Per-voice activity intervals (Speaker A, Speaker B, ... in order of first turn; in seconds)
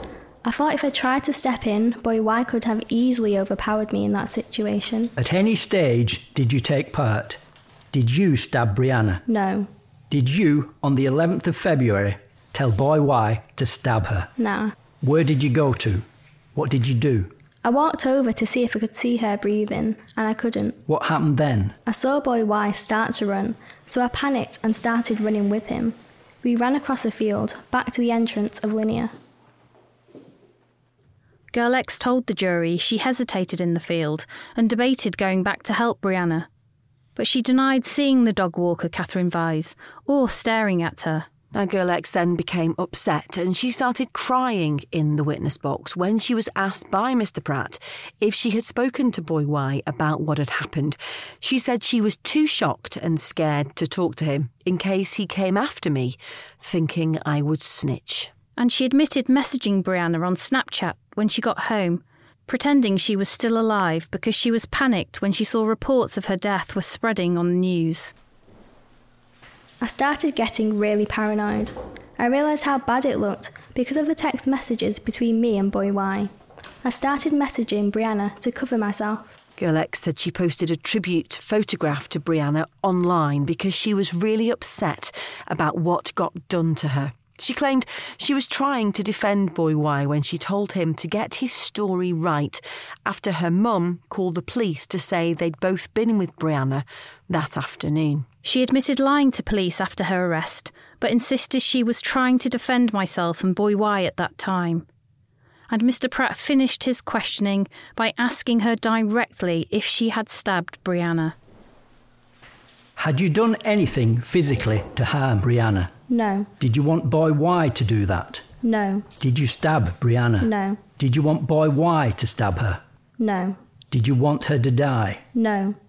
Speaker A: 0.4-5.1, 9.3-9.7, 14.4-14.8, 17.6-20.8, 21.9-29.1, 69.8-76.3, 76.8-79.3, 116.1-116.5, 118.6-119.1, 120.4-120.8, 123.2-123.6, 125.3-125.8
Speaker B: 5.2-7.4, 7.9-9.2, 10.1-14.3, 15.0-17.3, 20.9-21.8, 113.0-115.9, 116.6-118.4, 119.2-122.8, 123.9-125.2
Speaker C: 31.5-36.5, 37.2-41.3, 58.6-68.1, 98.4-104.9, 105.7-111.4
Speaker D: 41.5-58.3, 79.6-98.3